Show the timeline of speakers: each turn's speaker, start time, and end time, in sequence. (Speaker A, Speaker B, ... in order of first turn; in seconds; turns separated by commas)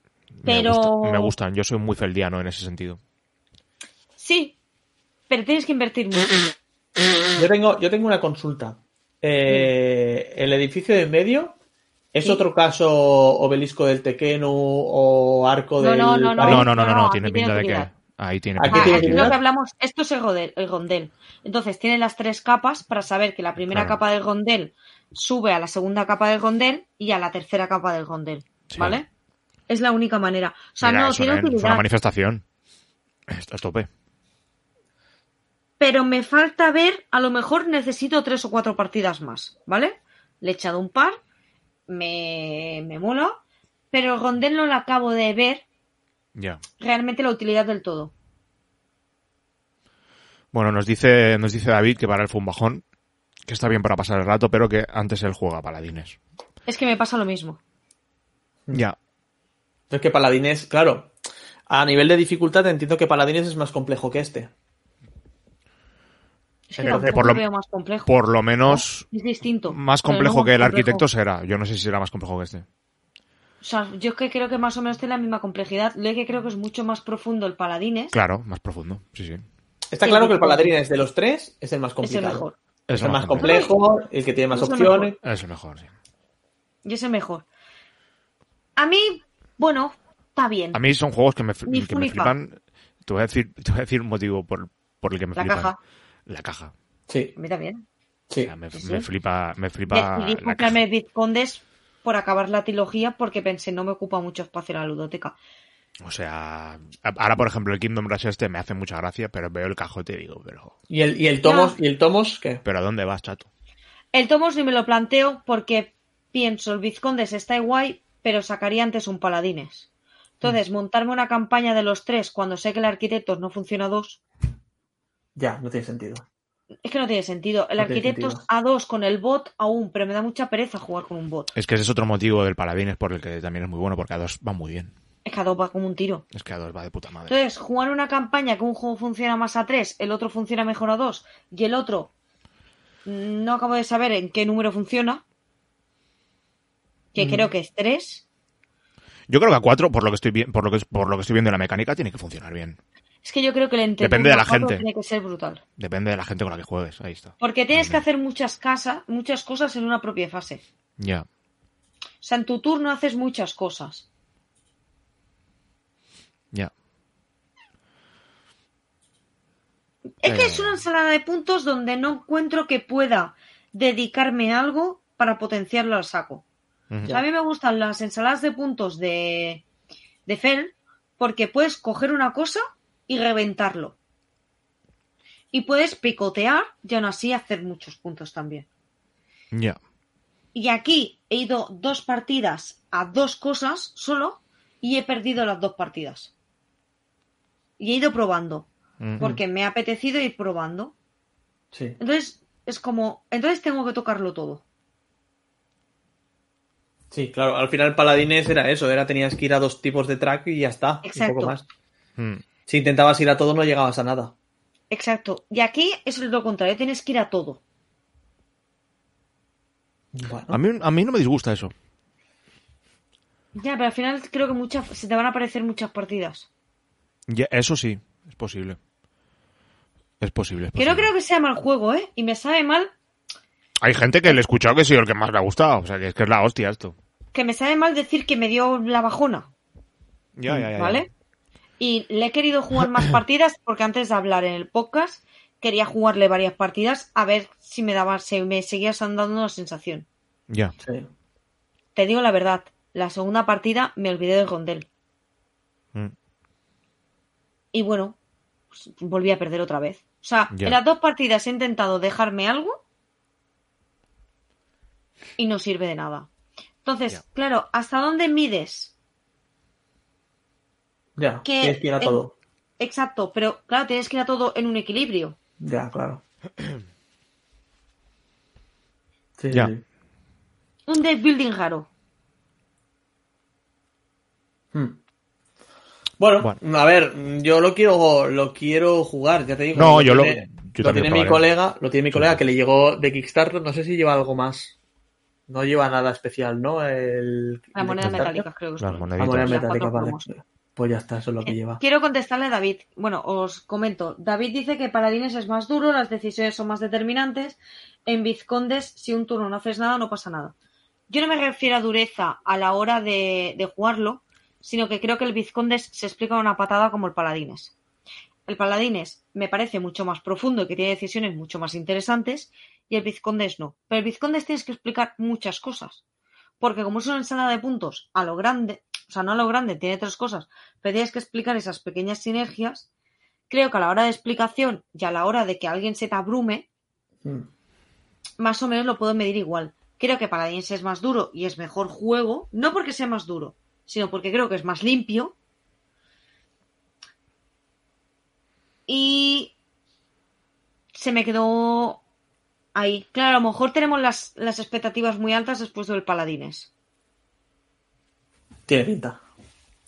Speaker A: 0.4-3.0, Speaker B: 0.4-1.3, Speaker B: 4.2-4.6, Speaker B: 5.3-6.3, Speaker C: 7.3-11.6, Speaker C: 12.1-16.7, Speaker B: 15.8-17.9, Speaker A: 16.4-19.3, Speaker C: 18.6-19.4, Speaker B: 18.7-29.1, Speaker A: 23.6-24.0, Speaker A: 28.7-29.0, Speaker B: 29.7-31.8, Speaker A: 30.8-32.4, Speaker A: 33.3-33.9, Speaker B: 35.8-41.2, Speaker B: 41.9-43.4, Speaker B: 43.9-45.6, Speaker A: 46.3-46.6, Speaker B: 46.8-48.1, Speaker A: 50.5-52.8, Speaker A: 53.5-56.2, Speaker B: 56.7-57.6, Speaker C: 59.9-61.1, Speaker C: 61.7-64.5, Speaker B: 66.7-68.1, Speaker C: 66.8-67.3, Speaker A: 66.8-67.4, Speaker A: 68.1-69.1, Speaker B: 68.7-71.0, Speaker A: 69.7-72.6, Speaker B: 73.6-78.2, Speaker A: 78.1-79.4, Speaker C: 79.9-85.2, Speaker B: 80.0-80.8, Speaker B: 82.0-82.5, Speaker A: 82.9-83.6, Speaker B: 83.4-83.7, Speaker B: 84.5-85.1, Speaker A: 85.2-85.9, Speaker B: 86.8-87.5, Speaker B: 88.8-90.8, Speaker A: 90.7-95.7, Speaker B: 91.7-92.3, Speaker B: 95.3-95.8, Speaker A: 96.2-96.7, Speaker C: 97.1-97.3, Speaker B: 97.3-97.8, Speaker A: 98.4-100.8, Speaker B: 98.7-99.0, Speaker B: 99.9-105.4, Speaker A: 106.0-110.7, Speaker C: 110.9-112.6, Speaker B: 111.4-111.8, Speaker A: 112.6-113.5, Speaker B: 114.1-119.9, Speaker B: 120.4-124.2, Speaker C: 125.3-126.2, Speaker B: 126.8-131.5, Speaker C: 127.8-128.4, Speaker A: 131.6-134.9, Speaker B: 135.2-136.2, Speaker A: 136.3-137.3, Speaker B: 137.3-142.1, Speaker B: 143.0-145.2, Speaker B: 147.1-148.2, Speaker C: 147.2-147.5, Speaker A: 149.3-152.8, Speaker B: 153.2-155.6, Speaker A: 154.0-154.8, Speaker A: 155.8-158.0, Speaker B: 157.4-160.6, Speaker A: 161.0-161.2, Speaker B: 162.2-164.1, Speaker B: 170.2-176.4, Speaker A: 170.2-170.8, Speaker A: 176.9-177.2, Speaker B: 177.1-179.6, Speaker B: 180.2-184.0, Speaker B: 185.5-188.7, Speaker A: 189.5-189.8, Speaker B: 190.5-196.3, Speaker B: 197.8-198.7, Speaker A: 199.0-199.2, Speaker B: 199.2-200.9, Speaker C: 201.7-202.0, Speaker B: 202.0-204.6, Speaker C: 207.1-211.6, Speaker B: 211.0-211.6, Speaker A: 212.2-212.4, Speaker C: 212.7-214.3, Speaker B: 214.9-217.6, Speaker C: 220.1-220.6, Speaker A: 220.5-221.7, Speaker B: 223.5-226.5, Speaker A: 227.3-228.8, Speaker A: 230.2-231.1, Speaker B: 230.8-232.9, Speaker A: 233.8-236.9, Speaker B: 237.3-239.5, Speaker A: 240.3-241.1, Speaker B: 240.8-241.1, Speaker B: 241.8-250.1, Speaker A: 250.5-250.7, Speaker C: 250.8-251.1, Speaker B: 251.9-254.9, Speaker B: 257.7-258.2, Speaker B: 258.7-262.8, Speaker A: 260.5-260.8, Speaker B: 265.4-266.3, Speaker B: 266.8-268.9, Speaker C: 271.2-272.3, Speaker B: 271.4-272.2, Speaker B: 272.8-275.4, Speaker C: 275.6-276.2, Speaker C: 279.4-279.8, Speaker B: 280.9-281.9, Speaker C: 286.2-294.7, Speaker A: 289.7-291.4, Speaker A: 292.1-292.4, Speaker C: 295.5-298.4, Speaker B: 297.7-300.3, Speaker A: 298.8-299.6, Speaker C: 299.2-301.8, Speaker B: 301.4-310.5, Speaker B: 311.1-317.7, Speaker B: 318.5-326.0, Speaker B: 326.6-332.9, Speaker B: 333.5-336.6, Speaker B: 338.4-345.3, Speaker B: 348.9-349.5, Speaker B: 350.9-352.0, Speaker B: 352.7-356.7, Speaker C: 358.7-359.2